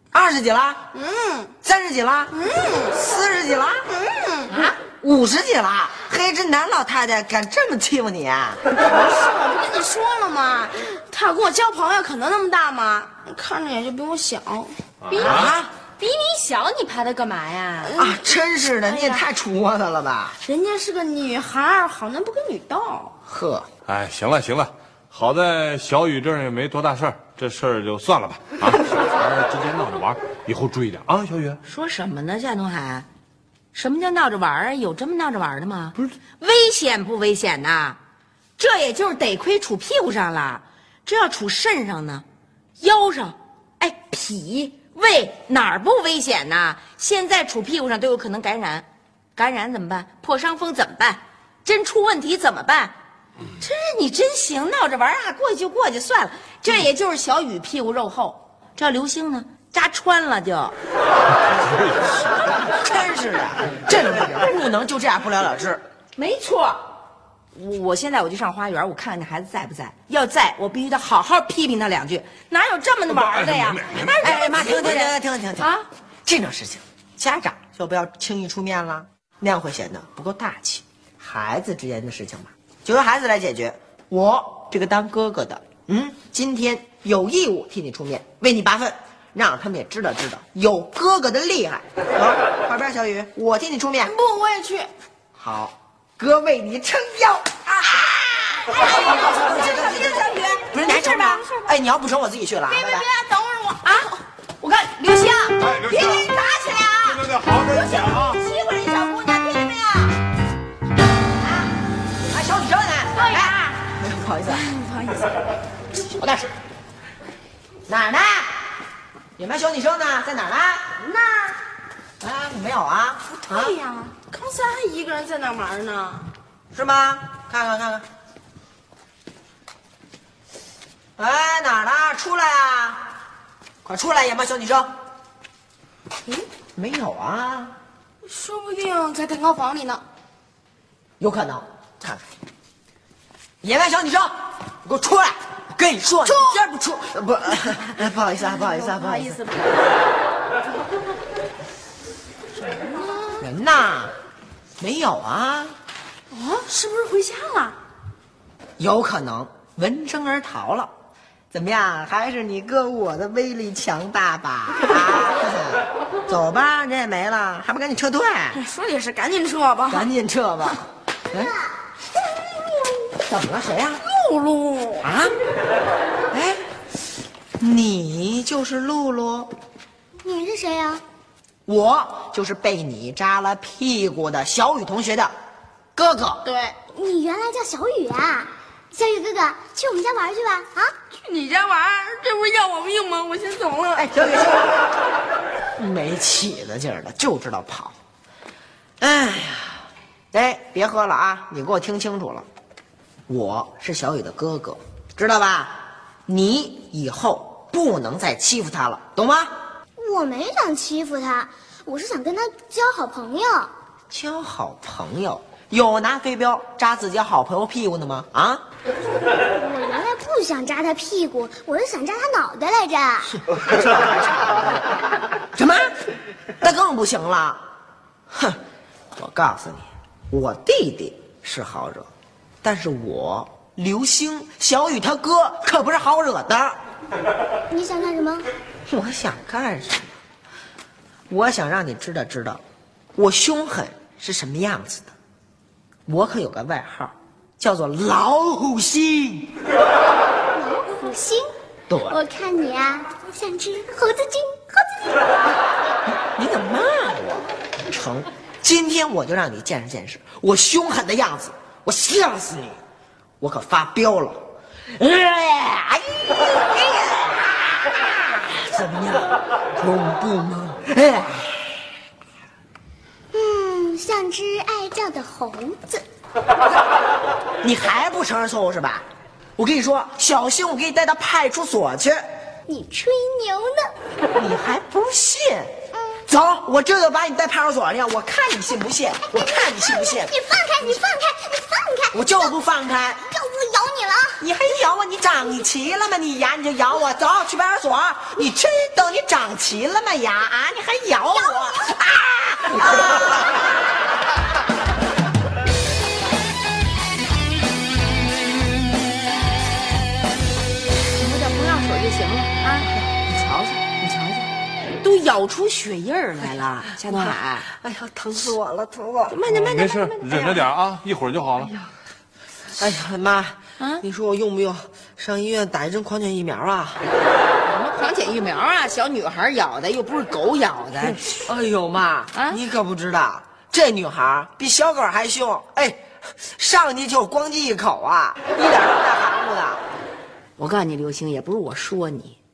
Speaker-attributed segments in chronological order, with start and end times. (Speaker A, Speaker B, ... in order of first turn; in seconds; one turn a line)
Speaker A: 0.1-0.8
Speaker B: 0.9-1.5
Speaker A: 1.6-3.8
Speaker B: 2.3-3.0
Speaker B: 3.9-4.7
Speaker A: 4.6-8.6
Speaker B: 8.7-15.5
Speaker C: 15.0-15.6
Speaker A: 15.2-15.7
Speaker D: 16.0-17.9
Speaker B: 17.9-18.1
Speaker A: 18.0-20.4
Speaker B: 20.4-23.2
Speaker A: 23.3-23.7
Speaker C: 23.9-31.6
Speaker D: 31.6-33.1
Speaker D: 33.7-38.0
Speaker D: 38.6-42.2
Speaker D: 42.8-48.9
Speaker D: 49.4-53.0
Speaker D: 53.6-60.8
Speaker C: 61.5-62.2
Speaker A: 62.6-65.8
Speaker D: 66.2-66.8
Speaker D: 67.5-75.8
Speaker C: 73.1-74.2
Speaker A: 74.2-75.7
Speaker A: 76.2-94.2
Speaker B: 94.0-94.9
Speaker A: 95.4-98.1
Speaker D: 97.7-100.7
Speaker A: 98.7-103.1
Speaker B: 98.8-101.7
Speaker B: 102.7-104.2
Speaker D: 103.8-104.1
Speaker D: 104.6-107.2
Speaker C: 105.6-106.3
Speaker A: 106.6-107.1
Speaker C: 107.0-108.4
Speaker D: 107.7-110.1
Speaker A: 111.4-111.7
Speaker A: 112.2-114.7
Speaker D: 113.2-113.5
Speaker A: 116.1-116.5
Speaker A: 117.9-118.6
Speaker A: 119.4-120.9
Speaker A: 122.2-123.8
Speaker B: 123.4-126.3
Speaker A: 126.7-128.1
Speaker A: 131.2-133.1
Speaker A: 133.8-134.9
Speaker A: 136.8-137.8
Speaker B: 138.2-140.0
Speaker A: 141.2-142.2
Speaker A: 143.6-149.4
Speaker B: 148.6-149.7
Speaker A: 153.4-154.1
Speaker A: 154.8-155.8
Speaker B: 156.5-157.4
Speaker A: 158.8-160.9
Speaker A: 161.5-168.6
Speaker B: 168.5-170.1
Speaker A: 169.9-171.6
Speaker A: 173.3-174.0
Speaker B: 174.0-175.0
Speaker A: 175.0-175.3
Speaker A: 176.3-176.6
Speaker A: 177.6-179.5
Speaker E: 180.2-181.0
Speaker A: 181.7-185.3
Speaker A: 185.9-186.4
Speaker B: 186.4-186.8
Speaker E: 186.9-190.9
Speaker B: 191.2-194.1
Speaker A: 193.9-194.9
Speaker A: 195.8-198.0
Speaker A: 199.0-202.5
Speaker A: 203.3-209.6
Speaker E: 210.0-213.7
Speaker A: 214.1-218.6
Speaker E: 219.4-223.4
Speaker A: 223.7-224.7
Speaker A: 225.5-225.9
Speaker A: 226.6-227.7
Speaker A: 228.3-228.6
Speaker A: 229.2-232.1
Speaker A: 232.6-236.8
Speaker E: 237.7-238.5
Speaker A: 238.9-240.1
Speaker A: 241.3-242.6
Speaker A: 243.2-245.1
Speaker A: 246.1-249.6
Speaker E: 250.6-251.5
Speaker A: 251.9-252.2
Speaker E: 252.1-255.0
Speaker A: 256.2-262.8
Speaker A: 263.4-264.4
Speaker A: 265.0-267.2
Speaker A: 268.6-271.5
Speaker E: 273.3-276.1
Speaker A: 277.6-282.2
Speaker E: 282.7-283.9
Speaker A: 284.4-285.8
Speaker E: 286.0-286.2
Speaker A: 286.3-290.3
Speaker E: 289.8-292.5
Speaker A: 292.1-293.2
Speaker E: 293.3-294.4
Speaker A: 294.4-303.7
Speaker E: 301.4-301.9
Speaker D: 311.1-314.5
Speaker D: 315.0-317.7
Speaker A: 317.1-319.4
Speaker D: 319.3-320.7
Speaker C: 319.5-321.7
Speaker A: 322.8-327.0
Speaker D: 327.6-331.2
Speaker A: 331.2-339.8
Speaker D: 340.6-342.4